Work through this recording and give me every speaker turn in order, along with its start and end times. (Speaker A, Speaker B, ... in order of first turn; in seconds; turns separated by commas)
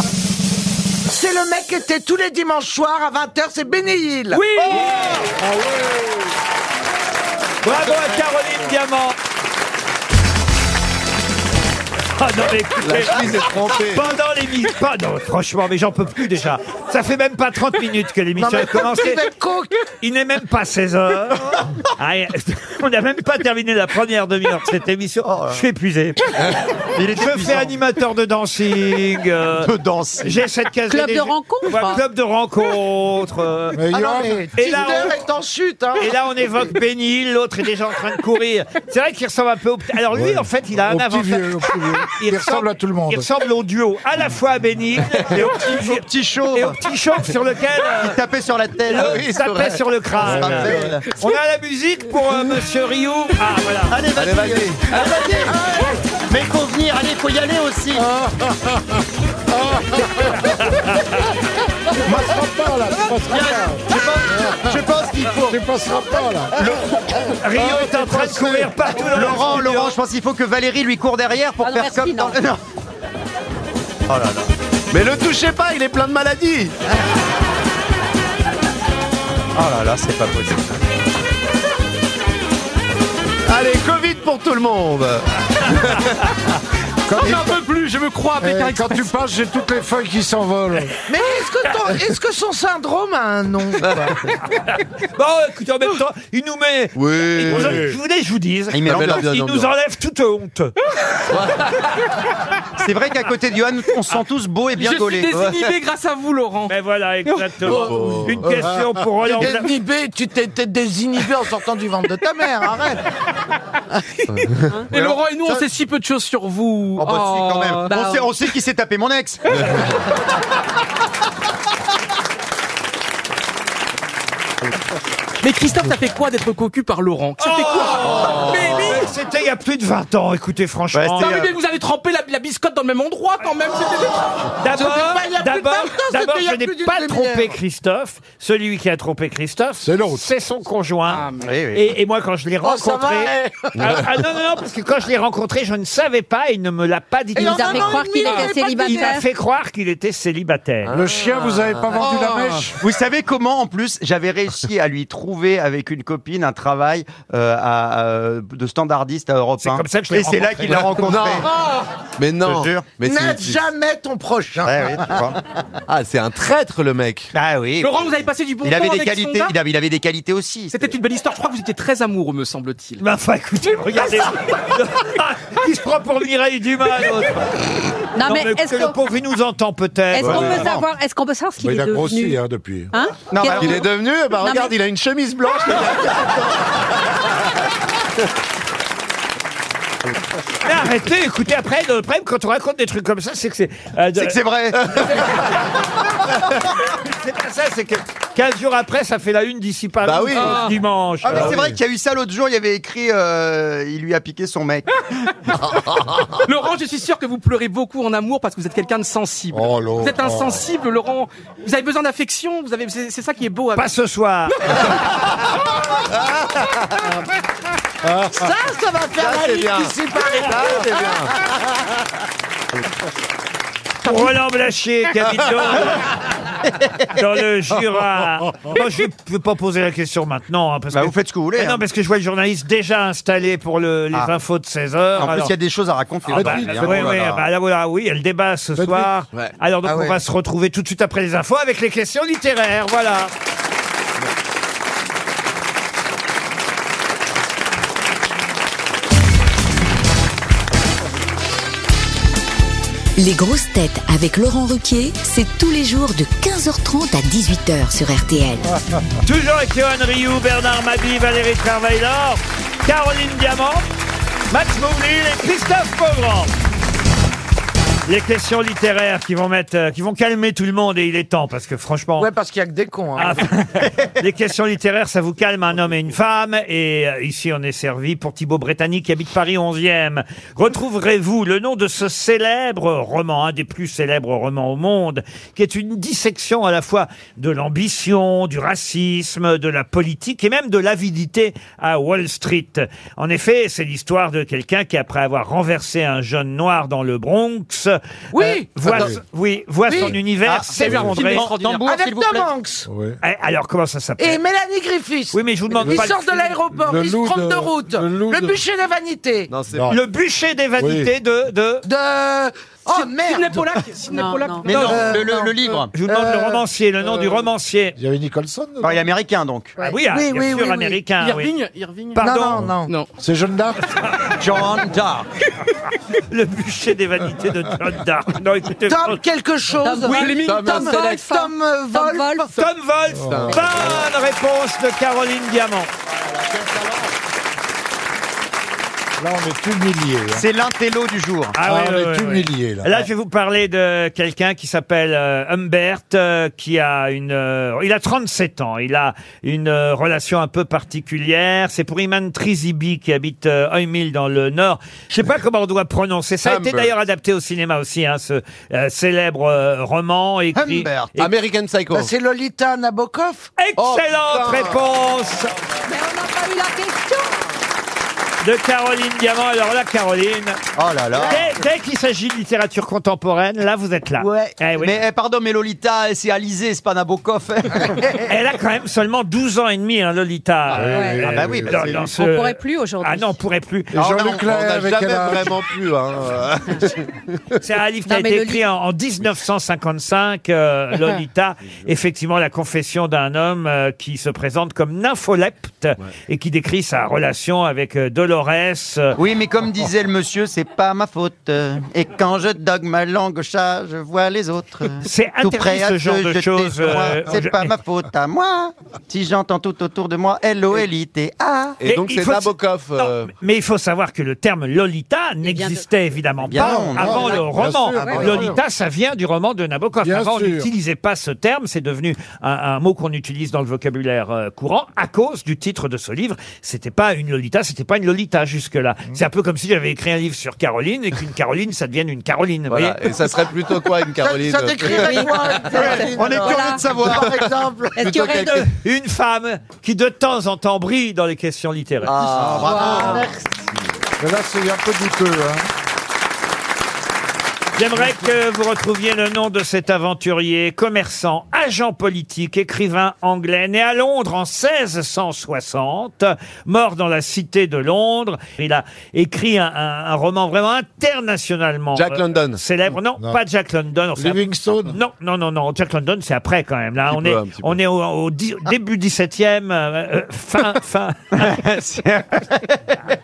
Speaker A: 1.1-4.5, Speaker B: 4.3-5.3, Speaker C: 5.3-6.3, Speaker B: 7.6-9.2, Speaker B: 12.2-19.2, Speaker D: 12.8-14.0, Speaker A: 18.4-19.8, Speaker B: 20.0-26.3, Speaker E: 25.2-25.6, Speaker E: 26.9-27.7, Speaker B: 27.1-33.8, Speaker E: 29.6-30.4, Speaker F: 30.9-32.0, Speaker C: 33.7-34.5, Speaker A: 33.9-36.1, Speaker B: 34.6-35.2, Speaker B: 36.0-48.2, Speaker C: 40.1-43.3, Speaker E: 45.4-46.8, Speaker E: 48.0-49.2, Speaker B: 48.9-54.0, Speaker D: 49.0-51.0, Speaker E: 50.2-51.0, Speaker E: 53.9-55.6, Speaker D: 54.1-54.8, Speaker A: 55.5-56.0, Speaker E: 56.3-58.1, Speaker C: 57.9-60.6, Speaker B: 60.7-61.0, Speaker C: 62.0-64.8, Speaker E: 63.3-65.6, Speaker C: 65.5-66.8, Speaker E: 66.6-66.8, Speaker B: 67.4-70.0, Speaker C: 67.5-68.8, Speaker E: 69.1-72.6, Speaker F: 71.6-72.4, Speaker E: 74.1-74.5, Speaker D: 74.9-76.7, Speaker E: 79.5-80.8, Speaker D: 83.5-86.2, Speaker C: 87.1-87.6, Speaker G: 87.1-89.1, Speaker C: 88.4-91.0, Speaker A: 91.1-94.3, Speaker D: 93.8-94.1, Speaker B: 95.0-100.7, Speaker D: 97.0-97.9, Speaker C: 97.5-98.0, Speaker E: 98.7-99.3, Speaker D: 98.8-99.7, Speaker D: 101.3-101.6, Speaker E: 102.8-105.4, Speaker G: 104.8-106.7, Speaker B: 106.7-109.7, Speaker D: 107.6-108.7, Speaker A: 109.2-113.0, Speaker D: 114.3-114.8, Speaker G: 114.9-118.0, Speaker E: 114.9-115.6, Speaker E: 117.0-120.0, Speaker F: 117.9-118.3, Speaker D: 119.5-119.8, Speaker G: 125.4-129.1, Speaker B: 127.4-131.4, Speaker D: 128.1-128.9, Speaker E: 130.9-131.5, Speaker G: 131.2-134.5, Speaker B: 134.6-150.9, Speaker A: 134.7-137.5, Speaker C: 139.8-140.3, Speaker G: 141.1-141.5, Speaker E: 141.4-141.9, Speaker A: 142.6-144.0, Speaker A: 147.4-148.8, Speaker F: 147.4-149.2, Speaker G: 148.2-149.1, Speaker C: 150.9-152.8, Speaker G: 152.1-152.4, Speaker E: 152.8-161.5, Speaker B: 159.6-161.1, Speaker D: 161.0-161.5, Speaker A: 161.4-161.8, Speaker D: 162.2-163.6, Speaker E: 162.4-162.9, Speaker A: 163.0-165.3, Speaker E: 164.6-165.4, Speaker D: 165.9-167.3, Speaker E: 167.3-168.1, Speaker G: 167.8-169.5, Speaker E: 168.6-170.9, Speaker G: 170.7-173.0, Speaker B: 173.0-177.6, Speaker F: 178.1-179.0, Speaker B: 178.2-180.7, Speaker F: 180.1-182.4, Speaker D: 180.2-180.8, Speaker C: 181.6-182.9, Speaker F: 182.9-184.8, Speaker E: 183.3-183.9, Speaker D: 183.5-186.8, Speaker B: 190.6-194.4, Speaker E: 194.1-195.3, Speaker B: 196.9-201.6, Speaker D: 200.0-200.7, Speaker G: 200.3-200.7, Speaker E: 201.2-204.9, Speaker D: 201.3-201.6, Speaker G: 206.4-213.9, Speaker C: 209.5-210.6, Speaker B: 213.8-214.8, Speaker D: 216.1-216.8, Speaker C: 218.1-218.3, Speaker A: 218.3-221.5, Speaker D: 219.2-221.3, Speaker B: 224.0-226.1, Speaker B: 227.1-235.5, Speaker E: 230.9-231.8, Speaker E: 235.2-237.4, Speaker B: 236.3-243.3, Speaker C: 236.3-237.2, Speaker C: 238.8-239.1, Speaker A: 239.8-240.2, Speaker H: 253.2-258.7, Speaker B: 259.2-263.9, Speaker B: 264.5-266.5, Speaker B: 268.1-272.3, Speaker A: 272.2-273.5, Speaker B: 273.1-301.5, Speaker A: 298.3-298.9, Speaker C: 298.9-299.2, Speaker A: 299.9-300.2, Speaker E: 300.4-302.5, Speaker G: 300.7-301.9, Speaker A: 301.8-302.9, Speaker C: 302.9-303.2, Speaker B: 303.2-304.4, Speaker A: 304.2-309.5, Speaker B: 305.3-306.6, Speaker C: 306.7-308.6, Speaker D: 309.5-309.9, Speaker C: 309.7-310.0, Speaker B: 309.9-311.8, Speaker C: 310.8-311.1, Speaker A: 311.8-313.8, Speaker G: 312.9-315.2, Speaker F: 314.1-314.8, Speaker E: 314.6-315.9, Speaker A: 314.7-316.6, Speaker B: 315.9-318.0, Speaker C: 318.0-319.0, Speaker E: 318.8-319.8, Speaker B: 319.8-321.5, Speaker A: 320.0-321.0, Speaker G: 321.2-323.1, Speaker B: 322.1-322.6, Speaker A: 322.2-322.9, Speaker C: 322.6-323.8, Speaker E: 324.4-325.3, Speaker B: 326.3-329.2, Speaker A: 328.9-332.5, Speaker F: 329.8-332.5, Speaker G: 330.1-331.2, Speaker D: 330.4-331.0, Speaker B: 332.6-335.9, Speaker C: 333.1-333.9, Speaker D: 333.2-334.1, Speaker E: 336.5-337.0, Speaker C: 339.2-340.4, Speaker E: 340.3-341.6, Speaker B: 341.6-361.3, Speaker C: 341.6-343.0, Speaker D: 356.4-356.9, Speaker E: 360.6-361.2, Speaker D: 361.2-362.1, Speaker A: 361.9-363.5, Speaker B: 363.6-365.5, Speaker D: 363.8-364.8, Speaker A: 365.9-367.4, Speaker B: 368.4-370.6, Speaker E: 370.8-371.5, Speaker B: 371.2-375.0, Speaker A: 374.2-374.6, Speaker E: 374.8-378.2, Speaker B: 378.2-383.9, Speaker C: 380.7-381.9, Speaker F: 380.8-381.2, Speaker E: 381.2-382.1, Speaker F: 382.0-383.4, Speaker C: 383.9-385.6, Speaker E: 383.9-384.5, Speaker D: 384.4-387.1, Speaker B: 387.6-399.1, Speaker F: 388.1-388.6, Speaker E: 399.1-411.8, Speaker B: 405.0-407.7, Speaker D: 411.8-413.3, Speaker B: 411.8-433.0, Speaker F: 415.4-415.8, Speaker E: 416.5-417.4, Speaker C: 416.6-418.6, Speaker C: 420.0-420.7, Speaker D: 432.7-435.4, Speaker A: 434.1-438.3, Speaker F: 434.9-436.8, Speaker E: 435.7-437.4, Speaker F: 437.9-438.6, Speaker D: 438.0-438.7, Speaker B: 438.3-442.1, Speaker D: 442.1-443.0, Speaker E: 442.2-443.3, Speaker F: 442.6-443.3, Speaker C: 444.2-445.7, Speaker B: 447.8-471.7, Speaker D: 461.9-462.6, Speaker C: 464.2-465.0, Speaker D: 467.1-467.8, Speaker E: 471.3-473.0